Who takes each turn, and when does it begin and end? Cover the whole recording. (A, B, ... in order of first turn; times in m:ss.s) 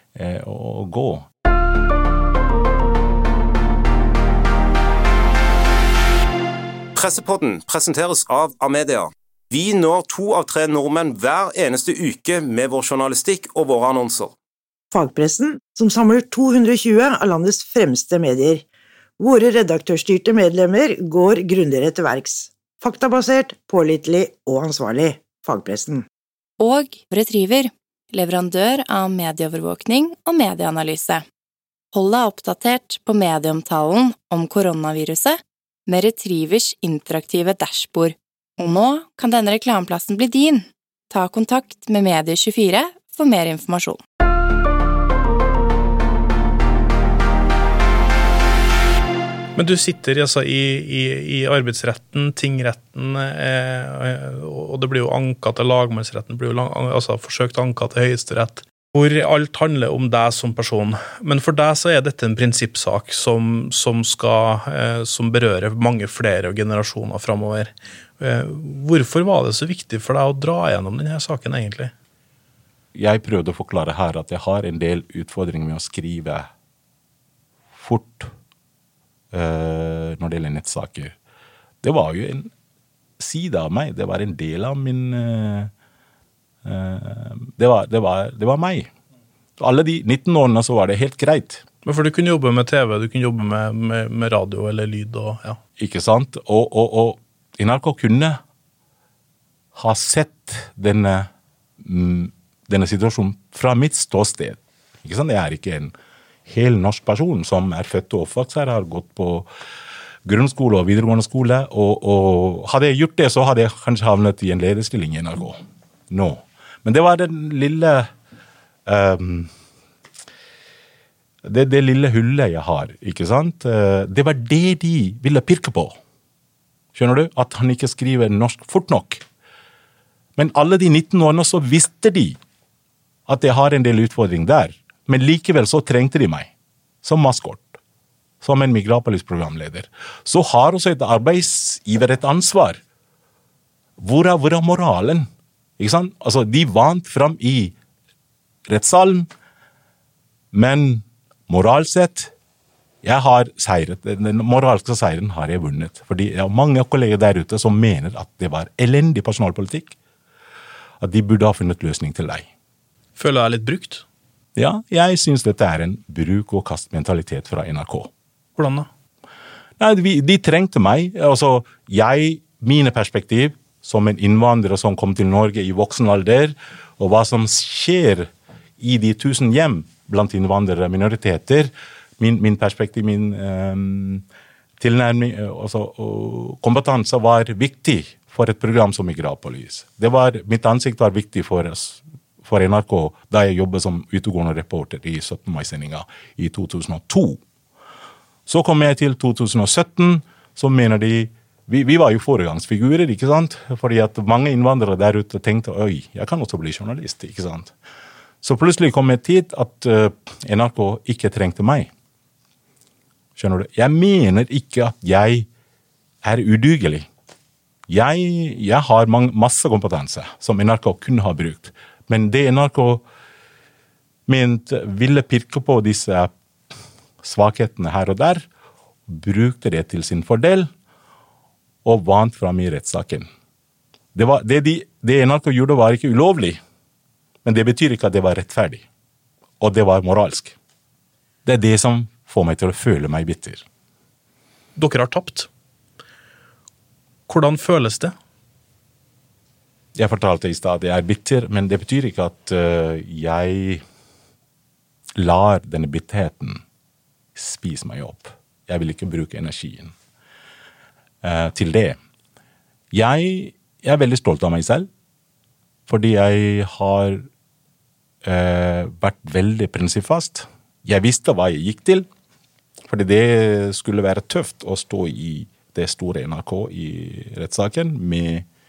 0:00.1-0:01.3 A
0:06.9-0:14.3 B
0:14.9-0:18.6 C
0:19.2-0:26.0 C
0:26.6-0:31.2 D
0:31.9-0:44.0 D
0:49.6-1:11.9 E
1:13.0-1:16.5 A
1:17.8-1:18.3 A
1:19.3-1:21.1 A
1:21.8-1:22.5 A
1:23.2-1:25.7 A
1:26.6-1:28.9 A
1:29.6-1:31.6 A
1:31.8-1:35.6 E
1:35.8-1:38.4 A
1:39.7-1:41.3 A
1:41.8-1:45.9 A
1:46.5-1:49.5 A
1:50.3-1:58.1 A
1:58.9-1:59.5 A
2:01.4-2:06.0 A
2:06.9-2:09.2 A
2:10.4-2:12.4 A
2:13.3-2:16.5 A
2:17.0-2:17.8 A
2:18.4-2:22.8 A
2:24.0-2:27.7 A
2:28.7-2:29.3 A
2:30.5-2:32.3 A
2:33.0-2:39.9 A
2:41.0-2:42.5 A
2:43.2-2:44.0 E
2:44.6-2:48.1 A
2:48.6-2:48.9 E
2:49.8-3:04.2 A
3:04.8-3:17.4 A
3:18.5-3:27.7 A
3:28.4-3:31.9 A
3:33.4-3:35.5 A
3:36.2-3:37.1 A
3:37.9-3:43.0 A
3:44.3-3:46.3 A
3:47.2-3:48.5 A
3:49.1-3:50.7 A
3:51.8-3:53.3 A
3:54.1-3:56.6 A
3:57.4-3:58.8 A
3:59.6-4:00.6 A
4:01.4-4:03.6 A
4:04.8-4:05.5 E
4:07.3-4:08.1 E
4:10.0-4:13.8 A
4:15.2-4:16.6 A
4:17.4-4:19.9 A
4:21.2-4:22.0 A
4:22.9-4:24.9 A
4:25.9-4:27.3 A
4:28.2-4:32.1 A
4:32.9-4:38.4 A